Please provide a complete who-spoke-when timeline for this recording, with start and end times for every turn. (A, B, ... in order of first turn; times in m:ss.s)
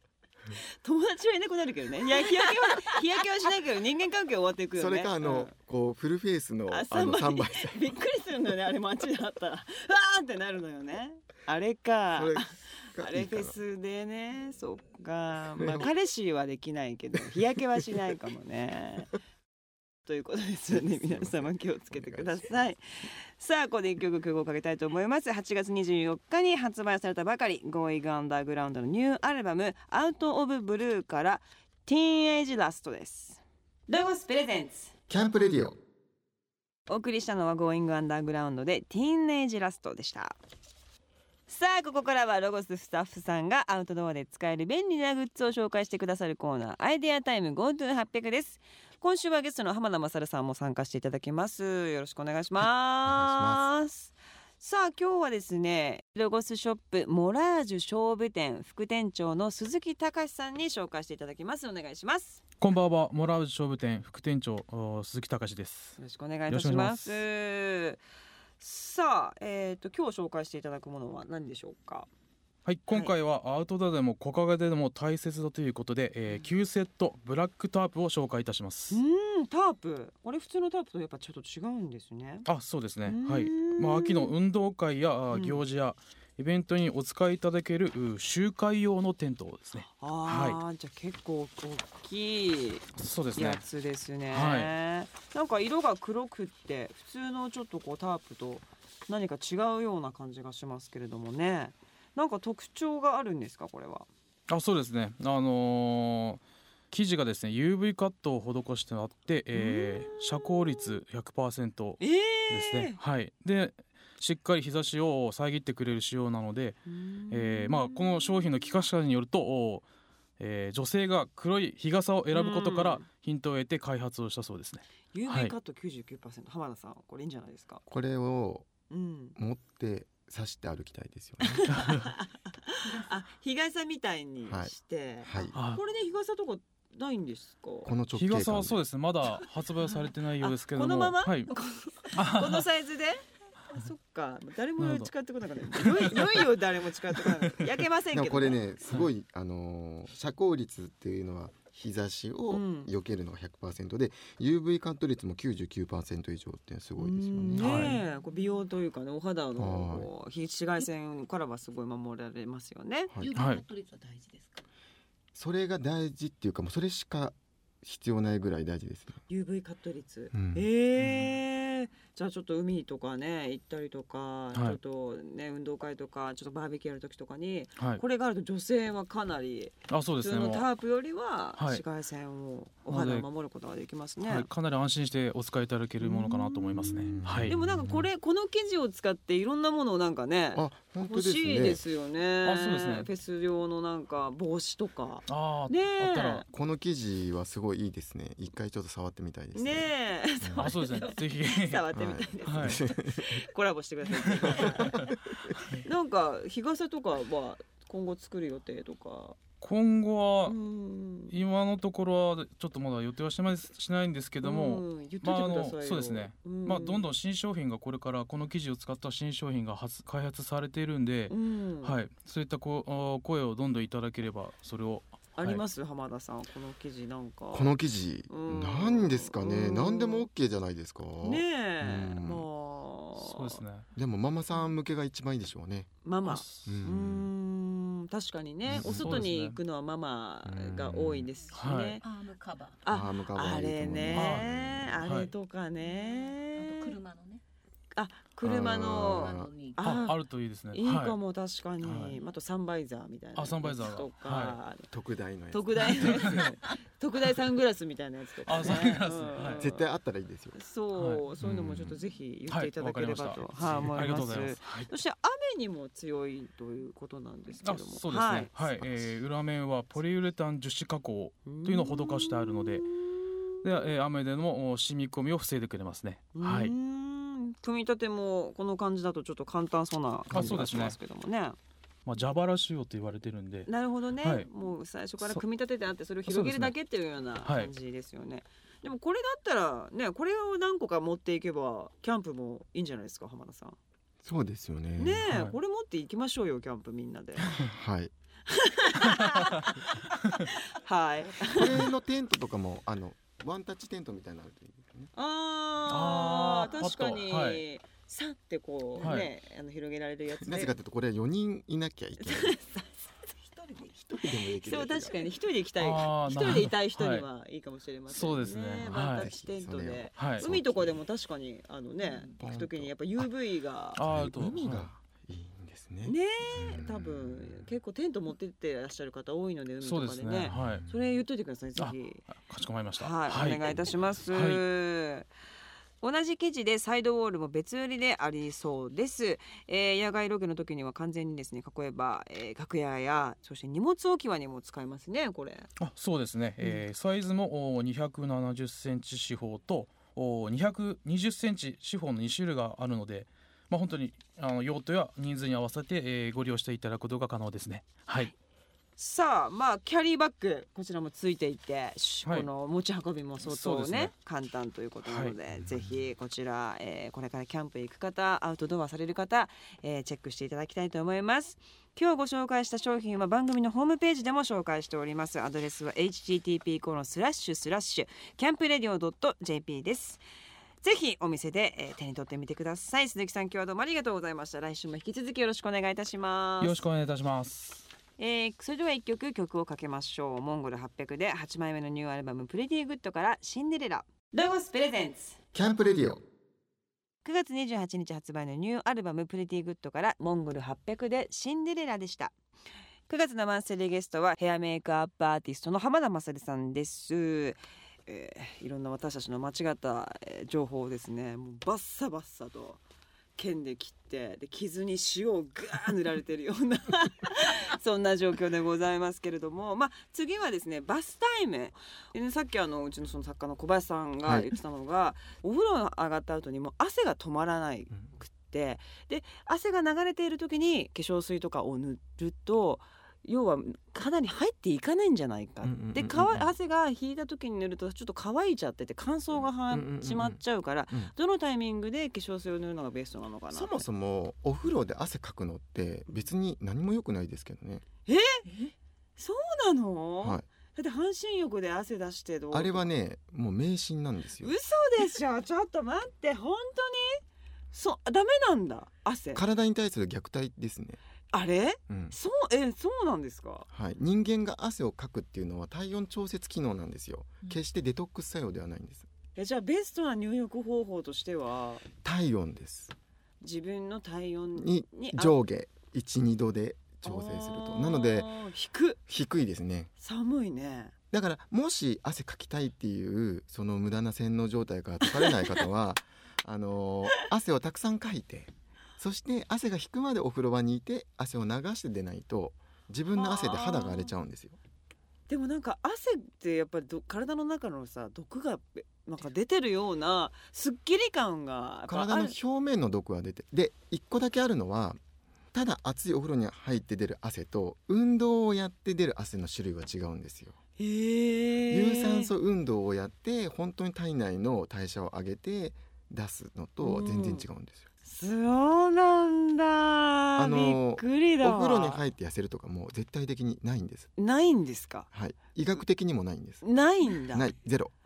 0:00.6-0:05.5 A
0:04.7-0:07.9 B
0:06.7-0:19.1 A
0:12.1-0:13.6 B
0:15.6-0:15.9 B
0:20.0-0:34.9 A
0:20.7-0:22.6 B
0:35.1-0:35.8 B
0:36.9-0:40.4 A
0:41.5-1:02.4 A
0:53.0-0:53.7 B
1:02.6-1:06.0 C
1:06.0-1:08.0 A
1:06.5-1:07.2 C
1:08.6-1:12.1 A
1:12.6-1:19.0 C
1:12.9-1:13.1 A
1:18.9-1:22.5 A
1:22.4-1:30.6 C
1:23.0-1:24.3 A
1:25.3-1:25.6 A
1:30.0-1:44.1 A
1:33.0-1:33.6 C
1:34.3-1:34.7 C
1:44.5-1:59.8 C
1:49.5-1:50.6 A
1:52.0-1:53.0 A
1:56.9-1:58.7 A
2:00.4-2:05.5 C
2:02.3-2:03.0 A
2:05.1-2:07.8 A
2:07.9-2:08.7 B
2:08.9-2:09.4 A
2:09.4-2:11.7 B
2:11.4-2:17.9 A
2:11.8-2:12.0 C
2:14.4-2:15.5 B
2:15.5-2:15.8 C
2:17.8-2:18.8 B
2:18.1-2:21.5 C
2:20.4-2:28.6 A
2:22.1-2:22.7 C
2:24.8-2:25.1 C
2:25.7-2:26.5 C
2:28.1-2:38.0 B
2:32.5-2:32.9 A
2:37.0-2:43.1 A
2:37.5-2:38.0 C
2:39.6-2:40.1 B
2:43.2-2:44.6 D
2:43.3-2:43.6 C
2:45.3-2:49.2 B
2:49.3-3:04.5 A
2:50.3-2:51.3 B
2:54.5-2:54.8 C
2:59.9-3:00.6 C
3:01.6-3:01.8 C
3:02.9-3:03.3 C
3:04.2-3:07.5 C
3:06.0-3:06.9 A
3:06.8-3:08.1 B
3:07.4-3:16.4 A
3:10.5-3:11.8 B
3:12.4-3:13.1 C
3:15.3-3:16.4 C
3:16.5-3:20.7 B
3:19.5-3:29.4 A
3:20.6-3:21.9 C
3:21.9-3:23.5 B
3:22.4-3:22.8 C
3:24.2-3:24.9 C
3:24.4-3:25.5 B
3:29.6-3:30.6 C
3:30.4-3:31.3 A
3:31.3-3:45.6 C
3:34.4-3:37.0 A
3:41.3-3:41.9 A
3:45.4-3:47.8 A
3:47.5-3:52.5 B
3:48.3-3:50.3 A
3:51.2-3:53.6 A
3:53.2-3:53.9 C
3:54.0-3:55.9 B
3:56.0-4:02.0 A
3:56.2-3:56.7 C
3:56.6-3:57.3 B
3:58.7-3:59.3 B
3:58.8-3:59.6 C
4:00.4-4:01.3 B
4:01.5-4:02.0 C
4:02.0-4:02.8 D
4:02.8-4:06.9 A
4:02.9-4:04.9 B
4:04.1-4:05.3 C
4:05.8-4:07.4 D
4:07.9-4:10.2 A
4:08.4-4:09.5 B
4:08.5-4:09.9 D
4:09.8-4:11.2 C
4:10.7-4:14.9 A
4:11.8-4:12.2 C
4:13.3-4:14.6 C
4:14.9-4:16.5 B
4:15.5-4:19.8 A
4:15.8-4:16.5 C
4:18.4-4:19.6 C
4:19.6-4:20.6 B
4:20.5-4:28.5 A
4:20.9-4:21.2 C
4:21.4-4:21.9 B
4:22.5-4:24.9 C
4:27.6-4:32.9 C
4:31.4-4:33.6 A
4:33.6-4:36.7 C
4:36.3-4:41.6 A
4:40.3-4:41.0 C
4:40.3-4:40.6 B
4:42.0-4:43.7 C
4:43.6-4:53.8 A
4:44.2-4:44.5 C
4:46.3-4:46.8 C
4:47.4-4:47.7 C
4:54.2-4:55.2 B
4:55.0-4:57.5 A
4:55.3-4:55.6 C
4:57.6-4:58.1 B
4:58.5-5:01.8 A
4:59.0-4:59.5 C
5:01.4-5:05.1 B
5:05.1-5:10.7 A
5:05.9-5:07.6 C
5:09.0-5:09.3 C
5:10.4-5:12.6 B
5:12.2-5:12.9 A
5:13.9-5:15.3 B
5:14.5-5:24.0 A
5:15.8-5:17.2 C
5:18.1-5:19.3 C
5:19.0-5:21.0 B
5:20.2-5:20.4 C
5:22.4-5:23.3 B
5:24.0-5:24.9 C
5:24.0-5:27.7 B
5:26.0-5:32.3 A
5:29.8-5:30.8 C
5:30.5-5:31.0 B
5:31.8-5:34.6 C
5:32.9-5:35.3 A
5:36.0-5:45.7 A
5:45.8-5:58.3 C
5:59.0-6:20.2 A
6:03.4-6:04.1 C
6:05.0-6:05.3 C
6:05.6-6:05.9 B
6:20.8-6:26.8 A
6:26.6-6:27.9 C
6:28.2-6:35.4 A
6:35.5-6:36.2 B
6:37.2-6:42.3 A
6:43.1-6:52.8 A
6:53.4-7:23.8 A
7:04.2-7:04.5 B
7:15.6-7:16.5 B
7:19.3-7:21.1 B
7:23.5-7:27.8 B
7:28.0-7:28.5 A
7:29.2-7:32.9 A
7:30.2-7:30.5 B
7:32.5-7:34.5 B
7:34.4-7:39.4 A
7:39.3-7:41.0 B
7:41.3-7:43.7 A
7:41.9-7:42.2 B
7:43.7-7:49.1 B
7:49.4-7:51.8 A
7:52.0-7:52.9 B
7:53.4-7:55.4 A
7:54.6-7:58.3 B
7:57.0-7:59.0 A
7:59.1-7:59.9 B
8:00.0-8:00.9 A
8:01.1-8:14.6 B
8:13.1-8:14.1 A
8:15.3-8:22.3 A
8:21.9-8:25.0 B
8:25.5-8:30.6 B
8:30.8-8:32.3 A
8:31.7-8:37.9 B
8:36.8-8:37.4 A
8:38.0-8:42.0 A
8:40.4-8:44.1 B
8:44.2-8:45.1 A
8:45.1-8:47.9 B
8:46.6-8:47.5 A